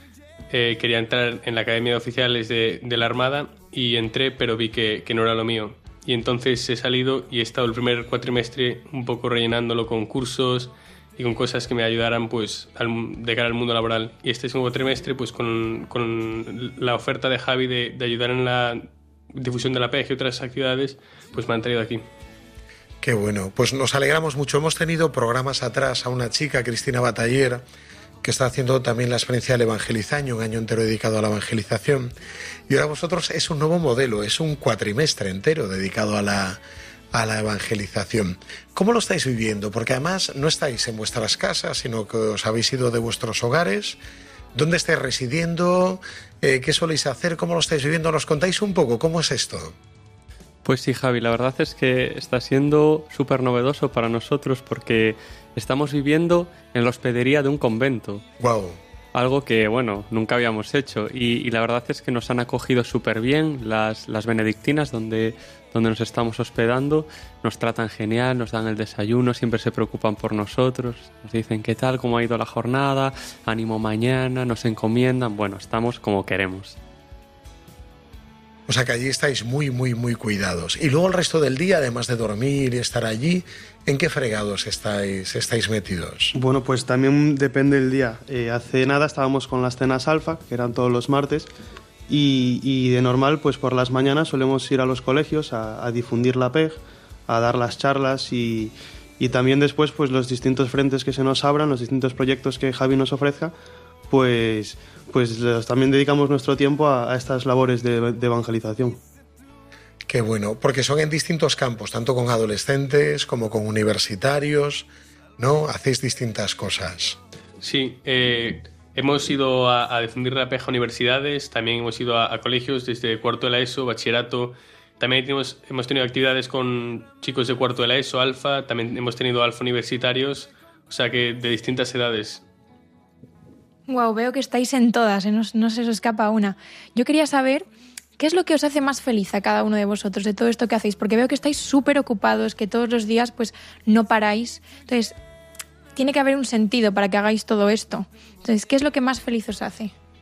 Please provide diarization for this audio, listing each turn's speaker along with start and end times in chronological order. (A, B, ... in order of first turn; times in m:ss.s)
0:00.5-0:22.0 A
0:23.0-0:27.6 B
0:28.2-0:32.1 B
0:32.7-0:36.6 B
0:37.1-0:44.0 B
0:44.6-0:49.8 B
0:50.6-0:58.2 C
0:58.4-0:58.8 B
0:59.1-1:16.8 C
1:18.7-1:26.4 B
1:26.4-1:31.5 D
1:32.1-1:43.5 D
1:44.1-1:49.0 D
1:50.1-1:57.2 B
1:57.6-2:12.4 A
2:13.9-2:17.7 E
2:18.2-2:25.2 E
2:26.0-2:29.9 E